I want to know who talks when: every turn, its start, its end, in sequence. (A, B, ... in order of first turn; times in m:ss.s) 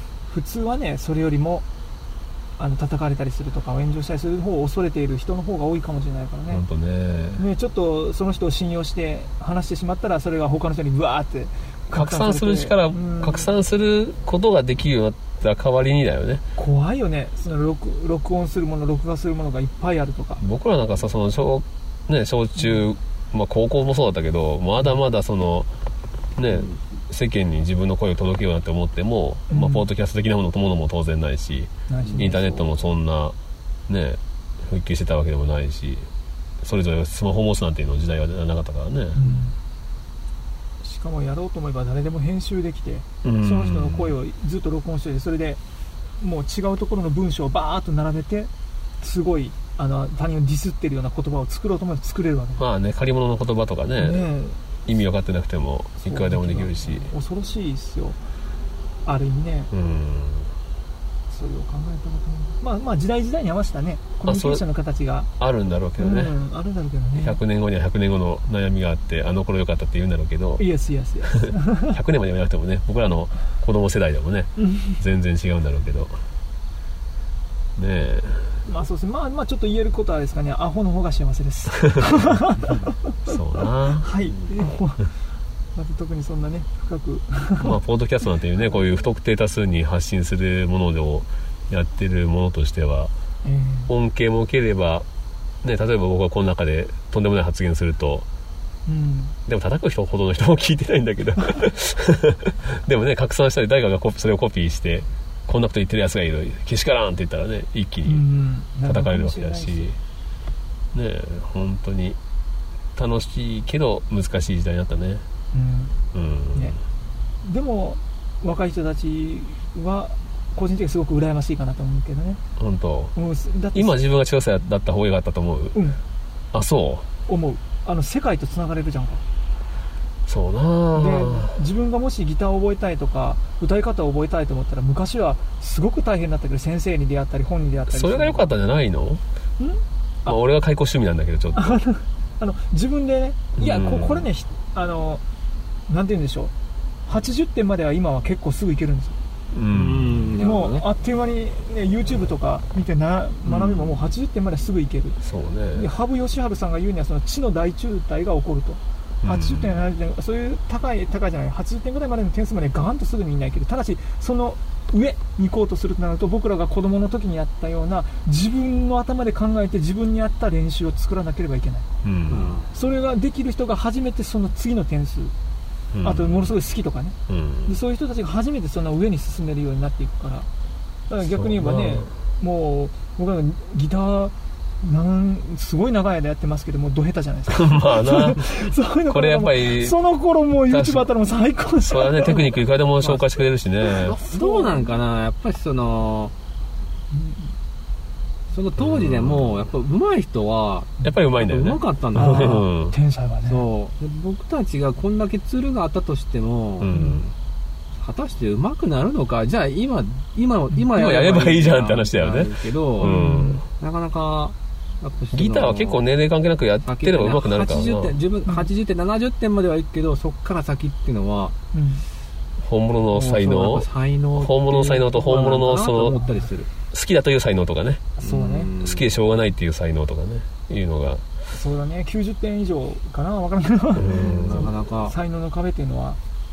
0:00.3-0:01.6 A
0:02.6-0:06.6 A
0:06.5-0:07.4 B
0:07.4-0:13.5 A
0:11.9-0:16.4 B
0:16.6-0:20.4 A
0:20.4-0:25.7 B
0:26.4-0:33.4 B
0:29.5-0:29.9 A
0:31.9-0:32.6 A
0:32.0-0:32.6 C
0:33.9-0:36.1 B
0:36.6-0:39.2 B
0:39.2-0:39.5 A
0:40.8-0:45.6 A
0:43.2-0:44.1 B
0:46.2-0:52.6 A
0:52.6-0:54.3 B
0:54.0-0:54.7 A
0:54.8-0:57.1 B
0:56.0-0:58.2 A
0:59.0-0:59.7 A
0:59.7-1:00.5 B
1:01.3-1:05.3 A
1:04.2-1:04.6 B
1:05.4-1:06.4 B
1:06.0-1:07.4 A
1:07.1-1:10.6 B
1:10.6-1:11.8 A
1:11.2-1:16.2 B
1:17.8-1:18.6 B
1:18.6-1:23.3 A
1:23.2-1:24.1 B
1:24.0-1:25.1 A
1:25.7-1:27.8 A
1:27.6-1:33.1 B
1:33.4-1:33.9 A
1:33.9-1:35.0 B
1:35.6-1:38.2 B
1:38.8-1:39.4 A
1:39.4-1:48.3 B
1:48.0-1:49.9 A
1:48.8-1:50.0 B
1:50.9-1:52.2 B
1:52.9-1:55.2 B
1:55.5-1:56.0 A
1:56.1-1:56.8 B
1:57.4-2:02.4 A
2:02.6-2:03.1 B
2:03.1-2:04.0 A
2:03.7-2:05.8 B
2:05.7-2:06.0 A
2:06.5-2:07.1 B
2:07.2-2:09.2 A
2:10.2-2:11.6 B
2:10.9-2:18.4 A
2:17.9-2:19.2 B
2:19.6-2:20.4 A
2:20.2-2:21.8 B
2:21.5-2:25.2 A
2:23.6-2:24.3 B
2:25.9-2:26.5 A
2:27.1-2:29.2 A
2:29.5-2:30.4 B
2:29.7-2:30.8 C
2:30.4-2:35.2 A
2:33.4-2:34.1 B
2:35.2-2:35.9 B
2:35.7-2:51.9 A
2:39.2-2:39.8 B
2:52.0-2:52.5 B
2:52.3-2:52.7 C
2:52.7-2:55.3 A
2:55.9-2:56.5 B
2:56.0-3:00.5 A
2:57.3-2:57.8 B
3:01.1-3:12.6 A
3:01.2-3:02.1 B
3:07.5-3:10.0 B
3:10.5-3:11.1 B
3:11.8-3:14.2 B
3:13.8-3:16.3 C
3:14.3-3:14.9 A
3:17.1-3:17.6 A
3:18.5-3:22.6 C
3:19.0-3:19.4 B
3:21.0-3:23.0 B
3:22.1-3:23.7 A
3:23.4-3:26.9 C
3:26.8-3:27.3 B
3:26.9-3:27.2 A
3:28.0-3:33.1 C
3:30.9-3:33.6 B
3:33.0-3:33.6 A
3:33.8-3:36.0 C
3:35.3-3:38.1 B
3:36.8-3:41.5 C
3:41.7-3:42.0 A
3:42.6-3:46.2 B
3:43.1-3:46.7 C
3:46.9-3:48.1 B
3:48.2-3:48.7 A
3:48.2-3:49.1 C
3:48.8-3:51.2 B
3:51.5-3:56.2 A
3:54.0-3:54.7 B
3:54.0-3:55.1 C